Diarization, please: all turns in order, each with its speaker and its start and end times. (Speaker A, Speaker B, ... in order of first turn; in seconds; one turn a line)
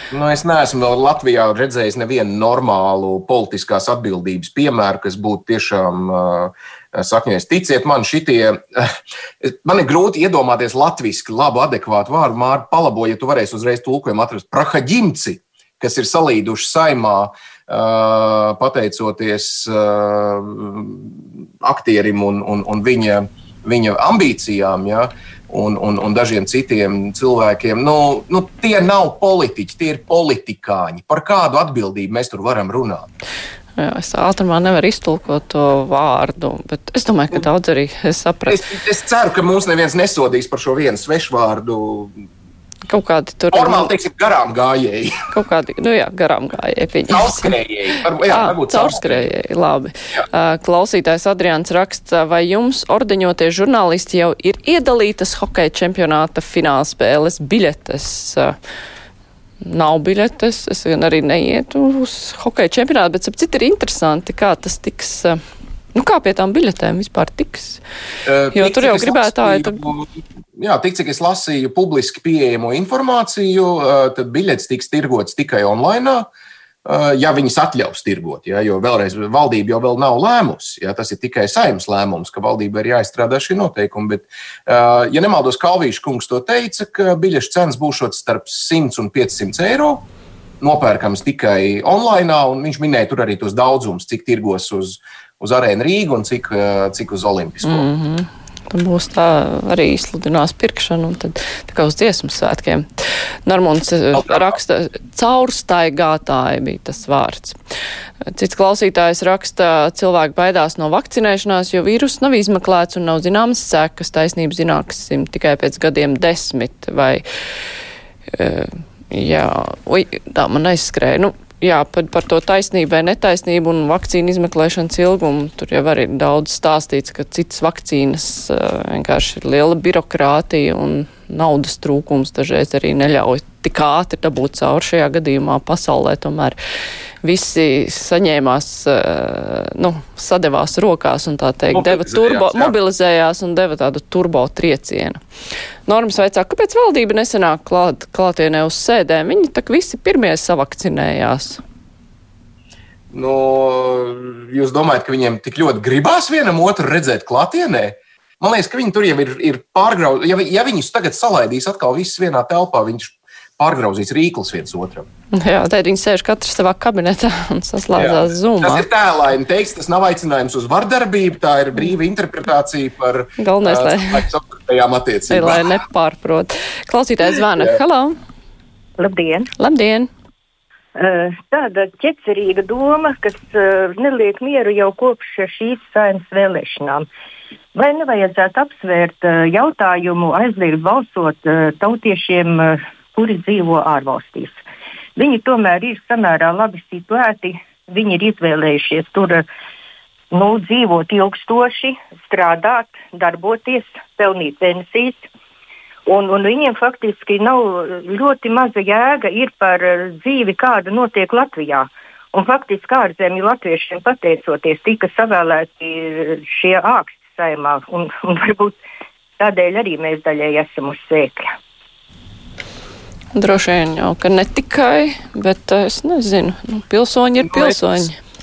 Speaker A: 0.1-33.1
Speaker B: 33.8-38.6
Speaker A: 38.5-42.2
Speaker B: 42.9-43.9
Speaker A: 43.5-45.2
Speaker B: 45.3-47.5
Speaker A: 47.1-49.3
Speaker B: 48.3-58.5
Speaker B: 59.6-65.4
Speaker B: 65.9-67.8
Speaker A: 68.3-76.3
Speaker B: 68.5-69.8
Speaker A: 76.8-90.0
Speaker A: 90.6-97.9
Speaker B: 97.6-102.9
Speaker B: 103.5-107.6
Speaker A: 104.1-104.6
Speaker B: 108.3-117.2
Speaker B: 118.3-136.6
Speaker B: 137.2-145.2
Speaker A: 141.7-142.8
Speaker B: 145.9-151.6
Speaker A: 153.1-165.1
Speaker B: 165.3-168.9
Speaker A: 167.9-175.8
Speaker B: 173.4-174.3
Speaker B: 175.3-178.2
Speaker C: 179.0-179.5
Speaker B: 179.6-180.1
Speaker C: 181.0-187.1
Speaker C: 187.8-194.6
Speaker C: 195.2-199.5
Speaker C: 200.3-205.3
Speaker C: 206.1-218.8
Speaker C: 219.4-221.5
Speaker B: 223.3-228.2
Speaker A: 227.4-227.8